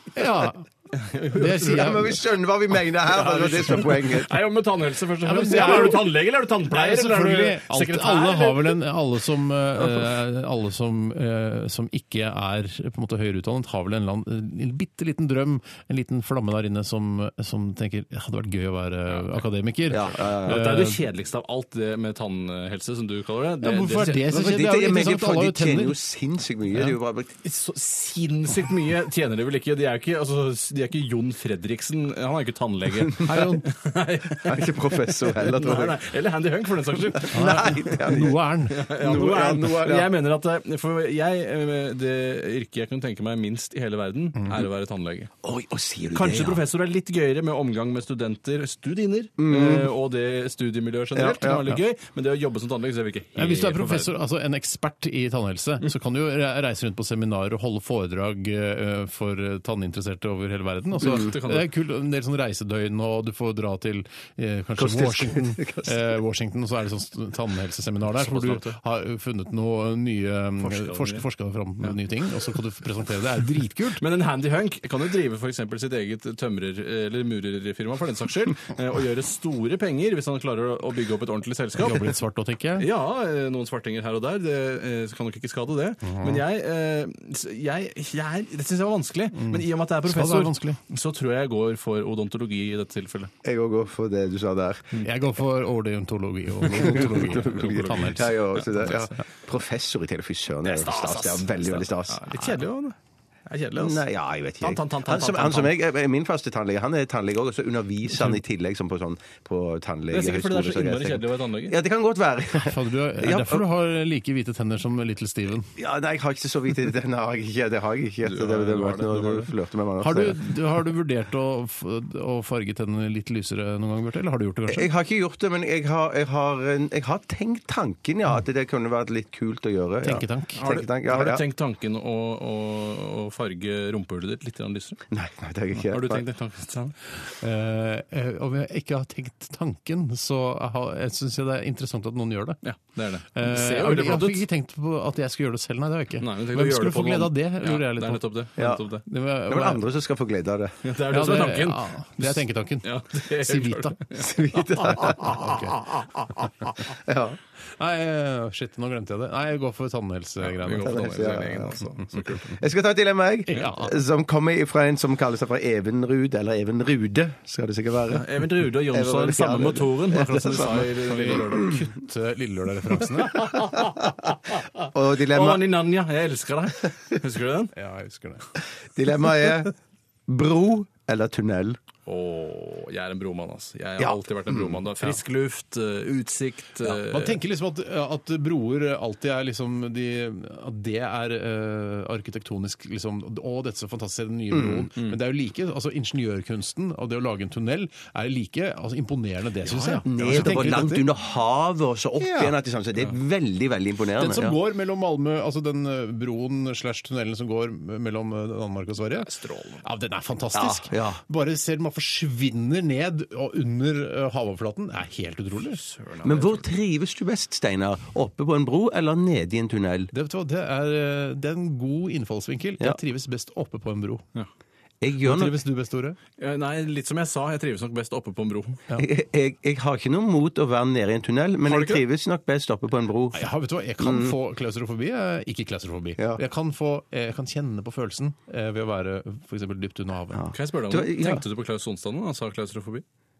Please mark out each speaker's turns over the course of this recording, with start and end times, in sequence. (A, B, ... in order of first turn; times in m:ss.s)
0:00.1-0:00.6 A
0:00.9-0:01.9 B
0:01.3-0:02.2 A
0:01.6-0:04.4 C
0:03.0-0:08.8 B
0:05.2-0:21.0 A
0:19.1-0:19.4 B
0:19.9-0:20.6 C
0:20.2-0:24.3 B
0:23.6-0:26.0 A
0:24.3-0:27.3 C
0:27.4-0:38.0 B
0:33.2-0:33.7 A
0:34.4-0:36.0 C
0:37.1-0:38.4 C
0:37.3-0:38.8 A
0:38.7-0:45.3 B
0:38.9-0:40.1 C
0:44.4-0:44.6 A
0:45.4-0:46.6 C
0:46.1-0:54.1 B
0:49.4-0:49.9 C
0:51.1-0:51.7 C
0:53.4-1:14.0 A
1:01.0-1:01.7 B
1:01.0-1:01.3 C
1:04.8-1:06.0 C
1:08.1-1:08.8 B
1:10.6-1:11.2 B
1:14.0-1:22.1 B
1:21.8-1:22.9 A
1:22.8-1:33.3 B
1:26.0-1:26.4 A
1:29.3-1:30.8 A
1:33.4-1:34.9 C
1:35.0-1:38.4 A
1:36.6-1:42.3 C
1:38.6-1:39.1 B
1:40.6-1:44.0 B
1:43.8-1:53.6 C
1:44.6-1:45.7 B
1:50.1-1:51.8 B
1:52.5-1:55.7 A
1:55.8-2:00.4 C
1:58.2-1:59.5 B
2:00.0-2:04.9 A
2:04.7-2:11.4 C
2:10.0-2:10.6 A
2:10.6-2:15.0 B
2:15.1-2:16.2 C
2:15.8-2:16.9 B
2:17.3-2:22.6 A
2:22.6-2:24.4 B
2:23.3-2:28.5 A
2:26.2-2:29.0 B
2:28.6-2:28.8 C
2:29.0-2:29.8 A
2:29.5-2:30.8 C
2:30.8-2:35.6 B
2:31.1-2:34.0 A
2:34.2-2:35.8 C
2:35.2-2:35.8 A
2:36.9-2:37.4 C
2:37.8-2:41.2 A
2:40.4-2:42.5 B
2:40.8-2:51.8 C
2:42.0-2:42.3 A
2:43.5-2:44.0 A
2:48.1-2:51.8 B
2:50.1-2:53.6 A
2:53.2-2:54.1 B
2:54.9-2:55.7 C
2:55.2-2:57.7 B
2:57.7-2:58.5 A
2:58.9-2:59.7 C
3:00.3-3:01.8 C
3:02.0-3:07.4 B
3:04.0-3:04.8 C
3:07.0-3:21.0 A
3:14.5-3:14.9 C
3:19.7-3:20.7 B
3:20.0-3:24.6 C
3:22.2-3:22.6 A
3:24.2-3:29.3 A
3:29.2-3:29.8 B
3:29.8-3:35.8 A
3:30.5-3:31.2 C
3:35.7-3:36.7 B
3:36.2-3:40.1 C
3:40.1-3:44.2 A
3:45.0-3:45.6 C
3:45.2-3:46.2 A
3:46.4-3:48.8 B
3:48.9-3:53.4 C
3:51.6-3:52.0 B
3:53.3-4:00.5 A
3:54.0-3:54.4 C
4:00.3-4:01.4 C
4:00.5-4:03.0 B